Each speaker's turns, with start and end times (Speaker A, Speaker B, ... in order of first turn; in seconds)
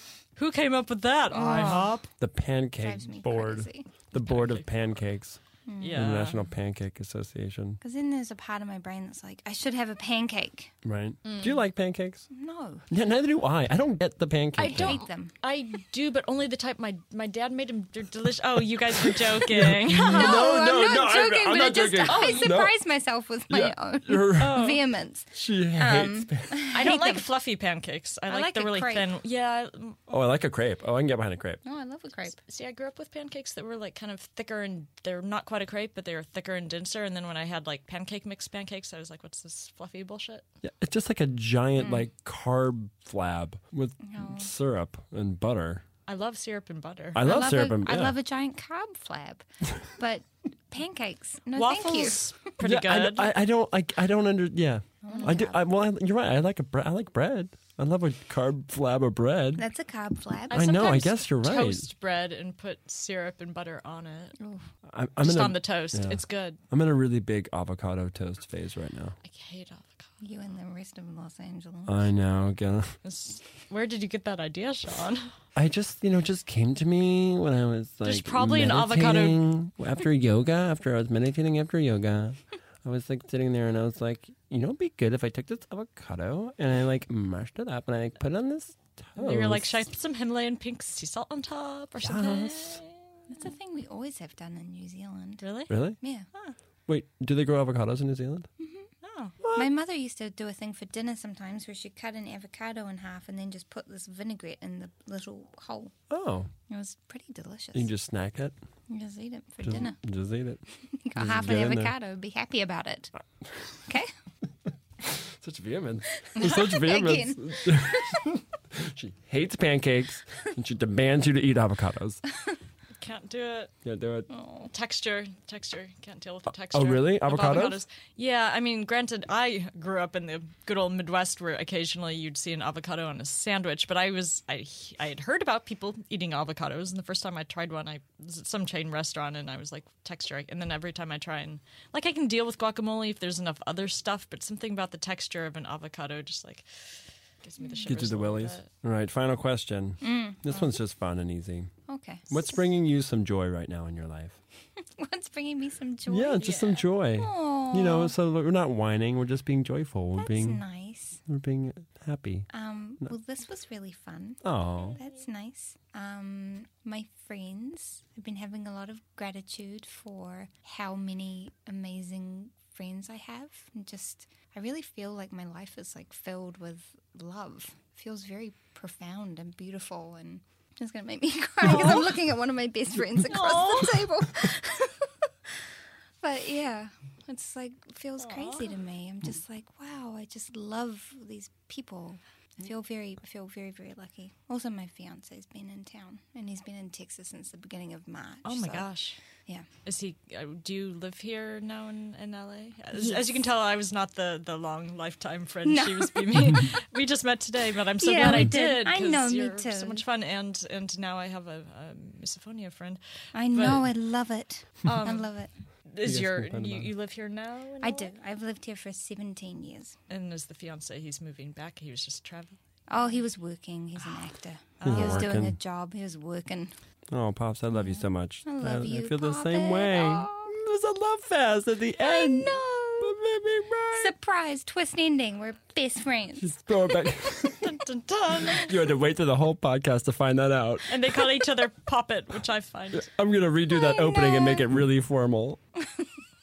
Speaker A: 0.4-2.1, 4.2-4.7, 5.8-6.4, 11.2-11.6, 14.6-20.5, 22.1-22.6, 24.4-24.8, 26.7-30.0, 32.3-40.5, 46.1-47.3, 51.5-53.4, 60.5-64.4, 65.2-66.6, 69.2-70.1, 73.0-75.3, 78.0-79.5, 89.2-93.4, 95.4-95.7, 99.0-99.3, 123.0-123.7, 124.7-148.7, 156.4-156.8, 181.7-181.9, 183.3-184.0, 188.2-188.7, 198.4-199.2, 199.8-213.8, 214.8-215.3, 215.9-218.1, 220.1-222.6, 224.8-225.3, 237.6-238.8, 240.9-243.1
Speaker B: 1.3-2.0, 2.8-3.9, 5.7-6.3, 7.8-10.7, 12.3-12.8, 14.6-15.3, 19.9-27.3, 28.3-29.1, 31.6-32.4, 44.0-44.5, 47.2-52.3, 55.0-55.6, 59.6-61.0, 64.4-64.7, 70.2-72.1, 93.3-95.5, 96.0-96.3, 98.6-98.9, 99.5-105.9, 106.7-107.9, 108.9-110.0, 110.9-113.1, 116.3-118.4, 124.3-124.7, 150.0-150.6, 151.9-152.6, 155.0-158.1, 160.2-161.2, 162.5-185.3, 186.2-198.9, 205.7-206.6, 208.0-210.0, 213.3-215.5, 217.8-220.0, 222.9-226.7, 227.7-230.5, 232.0-233.2, 233.9-236.5, 243.7-244.7
Speaker C: 2.2-5.4, 5.9-7.8, 10.8-12.3, 12.9-15.0, 19.4-22.7, 23.5-24.7, 25.4-26.7, 30.1-31.6, 40.6-45.8, 47.1-48.2, 52.6-59.6, 60.5-61.9, 64.9-69.2, 71.9-73.0, 75.5-89.8, 92.0-92.8, 95.7-96.0, 96.9-98.5, 99.4-99.7, 106.1-106.5, 107.7-108.5, 109.6-110.6, 111.2-111.9, 115.0-122.2, 123.8-124.3, 126.7-127.8, 147.9-151.7, 152.3-154.4, 156.1-160.6, 161.3-162.5, 164.4-165.0, 216.0-216.9, 224.8-225.6, 227.1-234.1, 236.4-237.8, 238.5-241.2, 242.9-245.6